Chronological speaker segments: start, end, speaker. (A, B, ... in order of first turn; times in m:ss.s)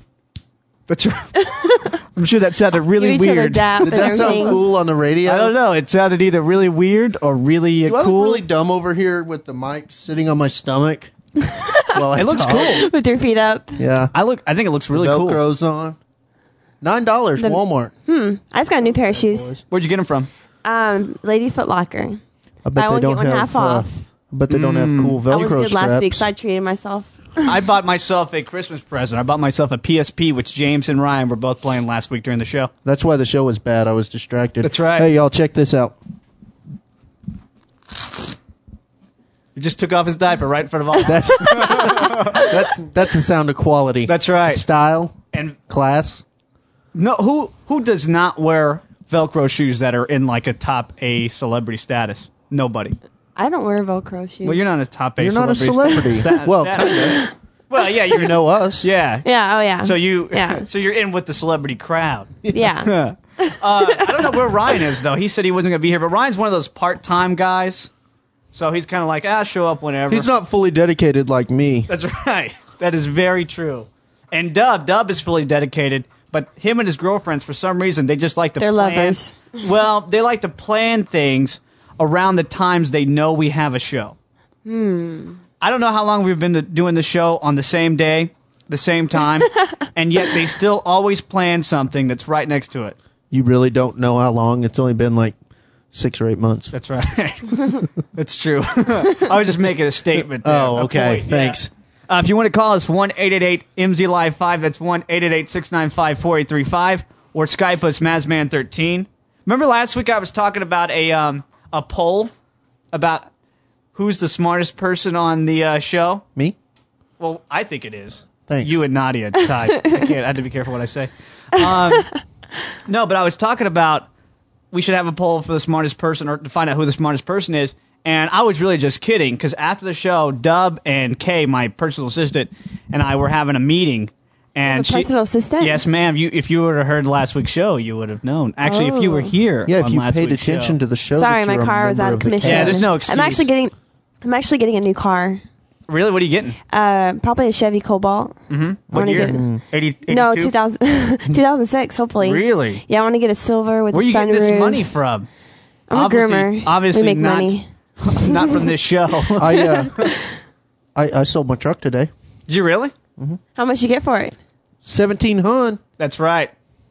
0:00.9-0:04.5 A
0:03.0-0:04.6 B
0:03.8-0:05.5 C
0:05.2-0:08.4 A
0:07.8-0:11.1 C
0:11.4-0:12.0 B
0:11.9-0:12.8 C
0:12.1-0:12.9 A
0:12.8-0:13.8 B
0:13.8-0:14.1 C
0:14.1-0:15.4 A
0:14.9-0:16.0 C
0:16.8-0:17.9 C
0:17.4-0:19.6 B
0:18.8-0:19.6 C
0:19.6-0:20.3 A
0:20.6-0:22.2 B
0:22.6-0:26.3 C
0:22.8-0:24.0 B
0:24.5-0:25.3 A
0:25.3-0:27.5 B
0:27.4-0:32.7 A
0:32.8-0:36.0 C
0:34.6-0:35.1 A
0:39.5-0:42.5 A
0:41.0-0:45.2 C
0:44.0-0:44.6 A
0:45.3-0:45.6 A
0:45.7-0:46.2 C
0:46.9-0:53.0 A
0:53.4-0:54.6 B
0:54.4-1:07.9 A
0:55.2-0:57.2 C
0:57.1-0:57.3 B
0:58.1-0:58.9 C
0:59.2-1:00.6 B
1:02.5-1:04.2 B
1:08.5-1:10.3 A
1:10.1-1:11.9 C
1:11.9-1:24.2 A
1:18.6-1:19.5 B
1:24.6-1:25.4 B
1:25.6-1:33.0 A
1:33.3-1:35.4 C
1:35.9-1:36.7 C
1:36.7-1:52.3 A
1:40.1-1:41.7 C
1:52.9-1:53.3 A
1:53.9-1:56.2 A
1:57.2-2:02.1 A
1:58.5-1:58.8 C
2:02.8-2:04.1 A
2:04.7-2:20.8 A
2:14.7-2:15.8 B
2:18.6-2:19.3 B
2:19.6-2:22.9 C
2:21.2-2:25.4 B
2:22.4-2:23.6 A
2:25.9-2:26.6 A
2:26.7-2:28.4 B
2:28.5-2:30.6 A
2:28.9-2:29.6 C
2:29.0-2:29.4 B
2:30.1-2:34.8 B
2:32.2-2:32.8 A
2:33.9-2:35.3 A
2:35.9-2:37.6 B
2:35.9-2:40.1 A
2:39.4-2:39.9 C
2:39.8-2:40.2 B
2:40.9-2:42.1 C
2:42.5-2:42.9 A
2:43.5-2:44.4 B
2:44.8-2:45.8 C
2:46.0-2:46.5 A